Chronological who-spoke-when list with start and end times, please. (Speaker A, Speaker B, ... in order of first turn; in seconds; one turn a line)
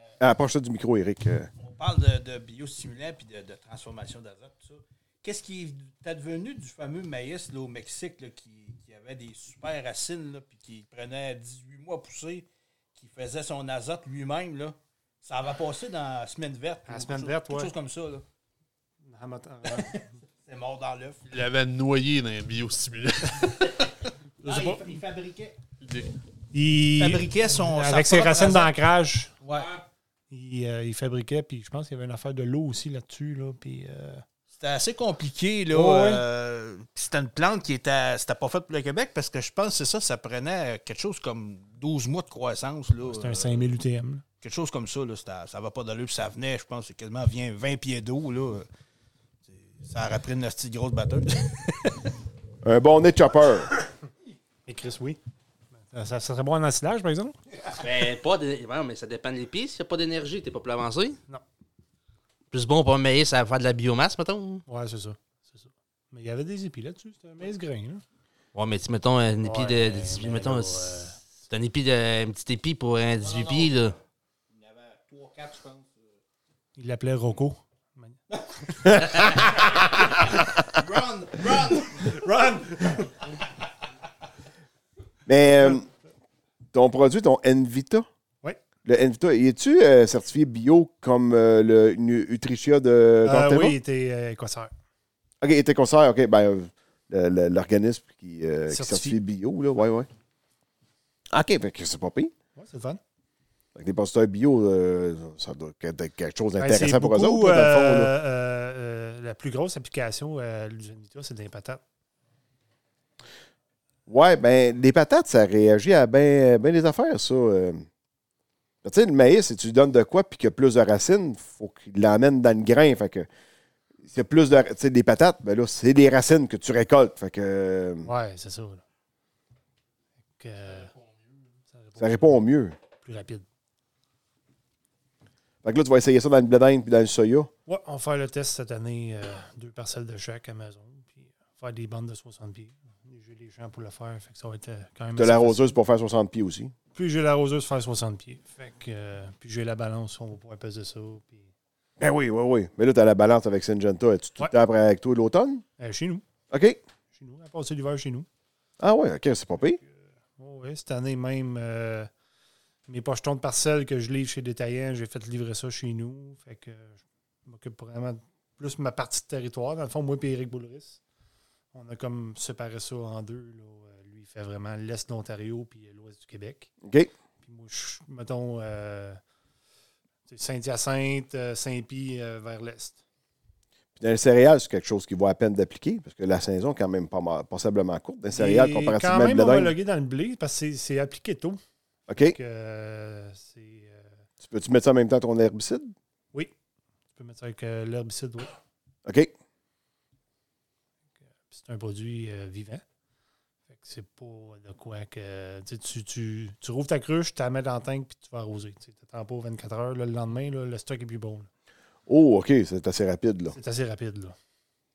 Speaker A: 0.2-1.5
Speaker B: 1.6-18.2
Speaker C: 16.9-17.7
Speaker C: 19.0-20.0
Speaker B: 19.7-21.2
Speaker D: 21.3-23.7
Speaker C: 24.4-25.0
Speaker B: 24.4-25.6
Speaker D: 25.8-26.1
Speaker C: 26.5-29.3
Speaker B: 27.0-28.7
Speaker B: 29.4-29.7
Speaker C: 30.3-34.2
Speaker B: 34.5-43.7
Speaker C: 35.7-36.2
Speaker C: 43.0-44.2
Speaker B: 44.4-48.7
Speaker B: 49.5-51.9
Speaker A: 52.6-53.7
Speaker C: 54.6-55.2
Speaker C: 55.8-57.3
Speaker E: 57.7-61.2
Speaker E: 62.5-64.6
Speaker C: 64.7-68.0
Speaker E: 68.5-74.0
Speaker C: 69.4-71.2
Speaker B: 73.2-73.8
Speaker B: 74.5-76.2
Speaker C: 76.8-78.2
Speaker B: 78.3-79.6
Speaker C: 78.8-79.5
Speaker B: 80.7-82.2
Speaker C: 82.0-83.1
Speaker A: 85.2-85.8
Speaker A: 86.7-88.0
Speaker A: 88.8-93.8
Speaker C: 93.2-94.7
Speaker A: 95.4-100.1
Speaker C: 98.7-99.2
Speaker A: 101.3-102.3
Speaker C: 102.5-103.0
Speaker A: 103.7-108.1
Speaker C: 106.6-111.8
Speaker A: 114.1-117.8
Speaker A: 118.8-123.3
Speaker A: 124.0-128.1
Speaker C: 128.0-128.8
Speaker C: 130.4-130.9
Speaker D: 130.7-131.4
Speaker C: 131.7-132.4
Speaker A: 132.0-132.8
Speaker C: 133.0-133.4
Speaker A: 135.6-137.5
Speaker C: 137.7-145.6
Speaker A: 145.2-146.7
Speaker C: 146.9-151.5
Speaker A: 152.0-155.6
Speaker C: 155.8-156.2
Speaker A: 156.5-156.8
Speaker C: 157.1-158.3
Speaker A: 158.8-159.8
Speaker C: 159.8-162.1
Speaker C: 162.9-171.0
Speaker C: 171.7-176.7
Speaker A: 176.8-177.1
Speaker C: 177.4-179.2
Speaker C: 180.3-183.0
Speaker A: 184.0-189.7
Speaker C: 188.3-191.6
Speaker A: 192.1-192.4
Speaker C: 192.2-194.1
Speaker A: 194.4-195.9
Speaker C: 197.1-198.5
Speaker A: 199.1-199.3
Speaker C: 201.5-202.8
Speaker C: 203.7-211.5
Speaker A: 212.1-213.5
Speaker C: 213.5-214.3